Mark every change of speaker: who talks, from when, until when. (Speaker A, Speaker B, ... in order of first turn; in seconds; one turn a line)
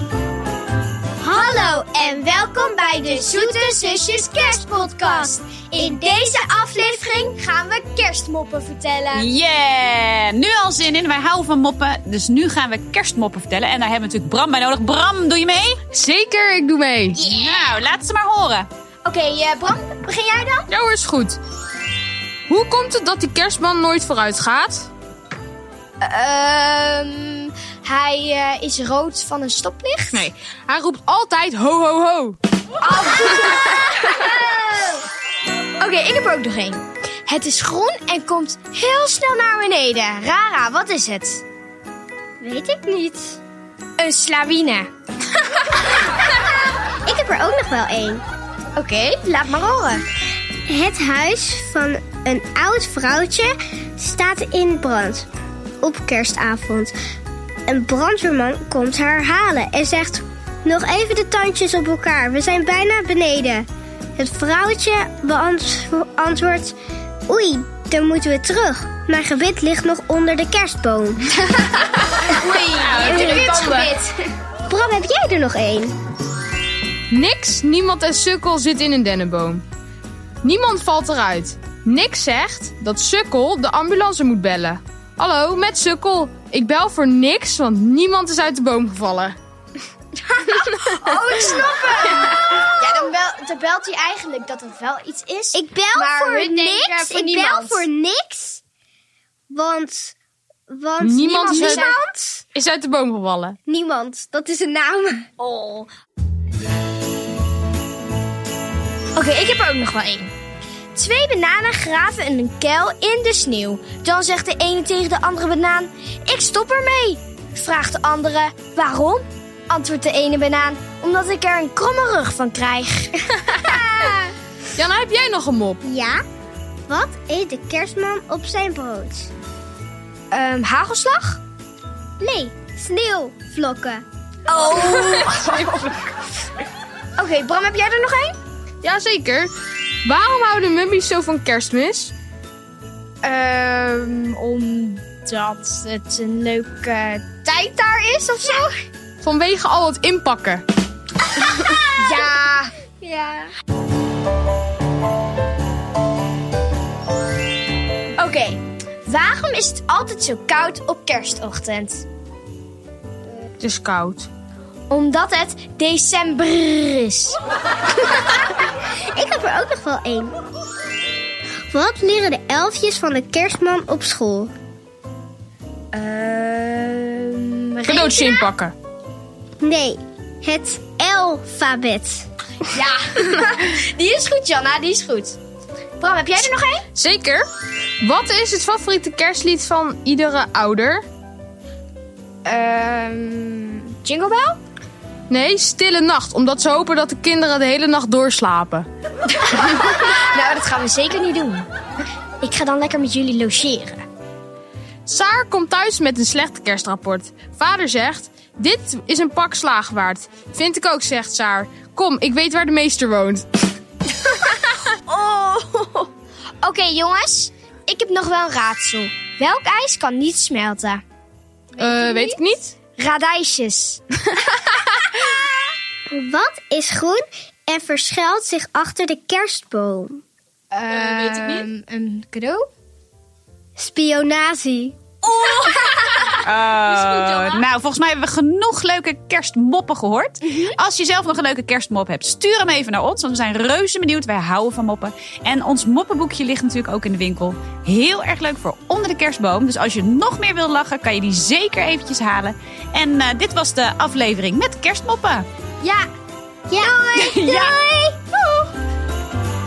Speaker A: 1.2-9.3
Speaker B: 1.9-6.5
Speaker C: 9.1-15.8
Speaker D: 15.9-17.2
Speaker A: 17.2-17.7
Speaker C: 17.2-18.7
Speaker A: 19.0-20.7
Speaker D: 20.7-21.4
Speaker D: 22.5-24.9
Speaker A: 26.0-30.3
Speaker D: 30.1-32.4
Speaker A: 32.8-35.0
Speaker A: 35.8-41.4
Speaker B: 42.4-43.4
Speaker A: 44.0-44.9
Speaker B: 47.0-48.2
Speaker A: 48.8-50.0
Speaker B: 50.7-55.3
Speaker B: 55.8-56.9
Speaker B: 57.7-66.8
Speaker B: 67.3-71.2
Speaker A: 72.3-74.1
Speaker D: 72.6-74.0
Speaker B: 73.0-73.6
Speaker B: 74.7-75.9
Speaker D: 77.1-79.6
Speaker D: 80.4-89.4
Speaker A: 90.3-97.8
Speaker B: 95.5-98.6
Speaker B: 99.5-100.2
Speaker B: 100.7-102.4
Speaker D: 101.0-101.9
Speaker A: 101.4-102.0
Speaker D: 102.5-103.6
Speaker B: 103.7-105.3
Speaker A: 105.4-105.9
Speaker A: 109.2-110.3
Speaker A: 110.9-124.2
Speaker B: 123.7-124.1
Speaker D: 124.8-125.8
Speaker B: 125.8-126.2
Speaker B: 126.9-129.3
Speaker A: 130.3-131.4
Speaker B: 132.2-134.0
Speaker A: 134.5-136.1
Speaker A: 137.2-138.4
Speaker D: 138.8-139.5
Speaker D: 140.0-142.1
Speaker A: 143.2-148.7
Speaker D: 149.2-150.6
Speaker A: 151.4-153.3
Speaker B: 153.0-153.4
Speaker A: 158.2-162.1
Speaker D: 163.6-164.3
Speaker A: 164.9-167.4
Speaker B: 169.0-170.3
Speaker B: 171.7-174.5
Speaker A: 175.9-178.5
Speaker D: 177.9-178.8
Speaker B: 179.6-182.3
Speaker A: 182.6-185.4
Speaker A: 186.0-186.8
Speaker D: 186.9-187.5
Speaker D: 188.0-191.1
Speaker A: 192.4-194.6
Speaker D: 195.3-198.9
Speaker A: 199.3-201.7
Speaker A: 202.4-204.0
Speaker D: 205.1-213.5
Speaker A: 215.1-216.1
Speaker A: 216.6-221.0
Speaker A: 221.8-222.4
Speaker D: 221.8-222.8
Speaker A: 223.0-224.0
Speaker B: 226.1-230.2
Speaker A: 230.7-232.7
Speaker D: 231.0-231.7
Speaker B: 233.8-235.0
Speaker A: 235.2-236.3
Speaker C: 236.4-255.5
Speaker D: 236.7-237.7
Speaker B: 256.7-258.2
Speaker C: 257.2-257.8